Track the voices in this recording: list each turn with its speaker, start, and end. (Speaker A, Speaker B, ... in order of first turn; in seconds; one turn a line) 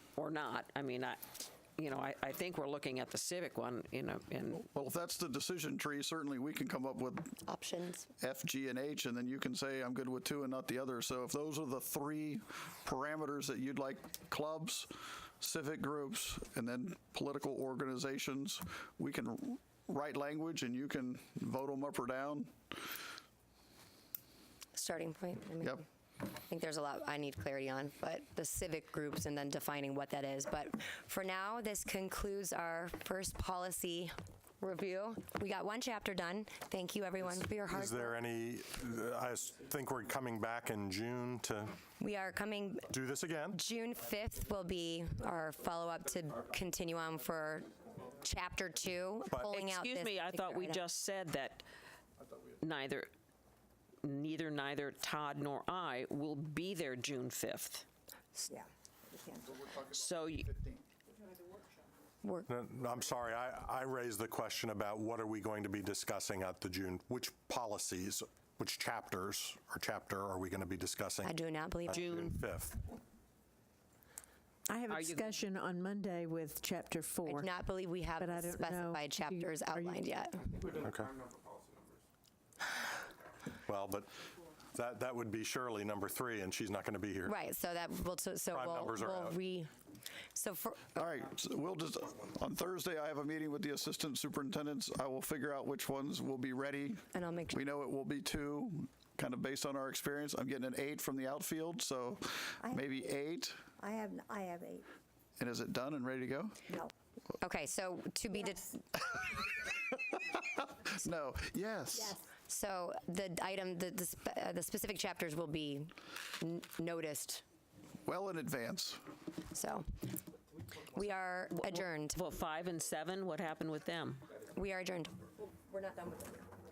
Speaker A: 0.2-4.7
Speaker B: 4.7-7.4
Speaker C: 7.5-8.1
Speaker B: 8.2-22.5
Speaker C: 24.8-38.2
Speaker D: 37.6-41.8
Speaker C: 42.0-42.9
Speaker D: 42.9-43.6
Speaker C: 43.5-47.7
Speaker C: 48.2-50.8
Speaker D: 49.3-49.6
Speaker A: 49.4-51.7
Speaker A: 52.6-53.1
Speaker A: 54.0-57.9
Speaker E: 58.5-59.6
Speaker B: 59.5-60.8
Speaker A: 59.9-60.5
Speaker C: 62.2-62.5
Speaker D: 62.5-72.8
Speaker C: 71.2-72.1
Speaker A: 71.9-72.4
Speaker F: 74.7-77.6
Speaker A: 74.9-75.4
Speaker C: 77.2-80.6
Speaker F: 78.2-80.0
Speaker D: 80.7-81.1
Speaker D: 83.7-84.1
Speaker D: 84.7-87.3
Speaker C: 87.2-89.7
Speaker D: 88.5-89.4
Speaker C: 90.3-90.9
Speaker B: 90.9-103.7
Speaker C: 97.1-97.6
Speaker E: 103.8-104.9
Speaker B: 105.4-106.6
Speaker C: 107.4-109.1
Speaker B: 109.2-112.2
Speaker C: 112.5-117.4
Speaker B: 118.1-119.0
Speaker C: 119.5-119.9
Speaker C: 120.9-122.2
Speaker A: 121.6-124.3
Speaker C: 124.5-125.2
Speaker C: 125.7-126.5